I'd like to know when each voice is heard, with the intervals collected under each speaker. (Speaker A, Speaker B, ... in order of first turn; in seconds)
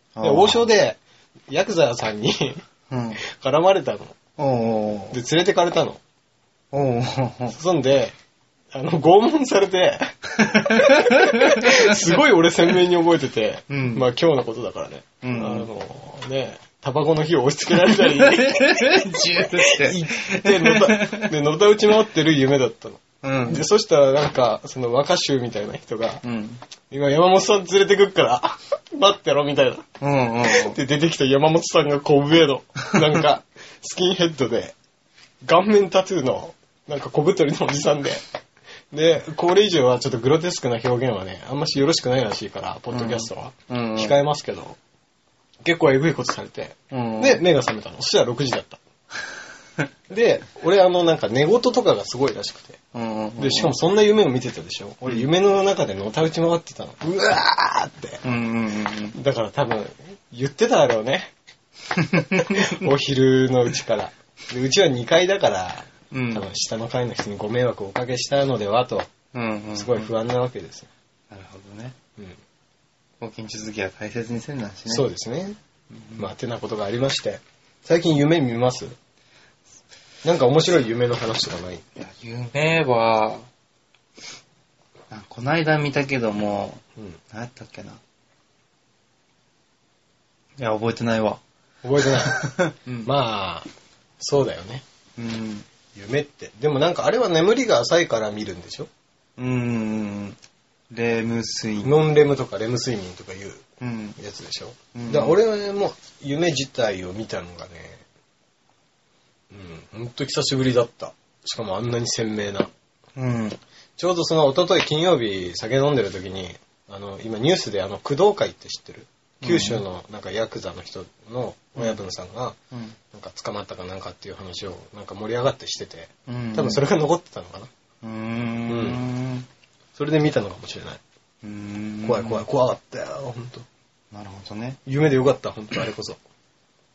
Speaker A: 0.2-0.7, 2.9-3.2, 4.4-5.2, 6.7-7.6, 10.4-12.0, 13.7-14.1, 15.2-15.7, 17.9-21.3, 23.2-23.6, 26.2-26.6, 30.0-30.8, 42.9-44.2, 46.9-47.4, 52.9-53.7, 58.2-59.2, 61.9-62.9, 66.1-66.5, 69.3-70.1, 71.3-72.0, 73.2-75.1, 75.9-76.3, 82.0-83.5, 85.1-88.0, 90.6-91.4, 92.0-93.1, 95.2-95.7, 99.4-100.4, 100.9-102.0, 103.8-104.2, 104.9-105.4, 113.2-113.6, 119.4-119.8, 122.7-123.0, 126.3-126.8, 128.0-129.5, 131.4-132.5, 134.1-134.8
Speaker B: 0.2-2.6, 3.2-4.2, 5.1-6.0, 7.5-8.2, 8.7-26.2, 26.9-29.9, 30.4-34.8, 35.4-38.2, 38.9-44.8, 45.6-48.8, 50.1-52.8, 53.4-58.2, 59.1-61.3, 62.1-69.1, 69.8-70.9, 74.9-75.6, 76.2-79.0, 80.2-81.8, 91.8-92.4, 93.0-93.7, 94.2-94.8, 96.0-98.9, 101.8-103.6, 104.2-108.0, 109.5-112.7, 114.0-122.6, 123.1-127.7, 128.7-129.1, 130.0-131.0, 132.1-133.7, 134.9-136.2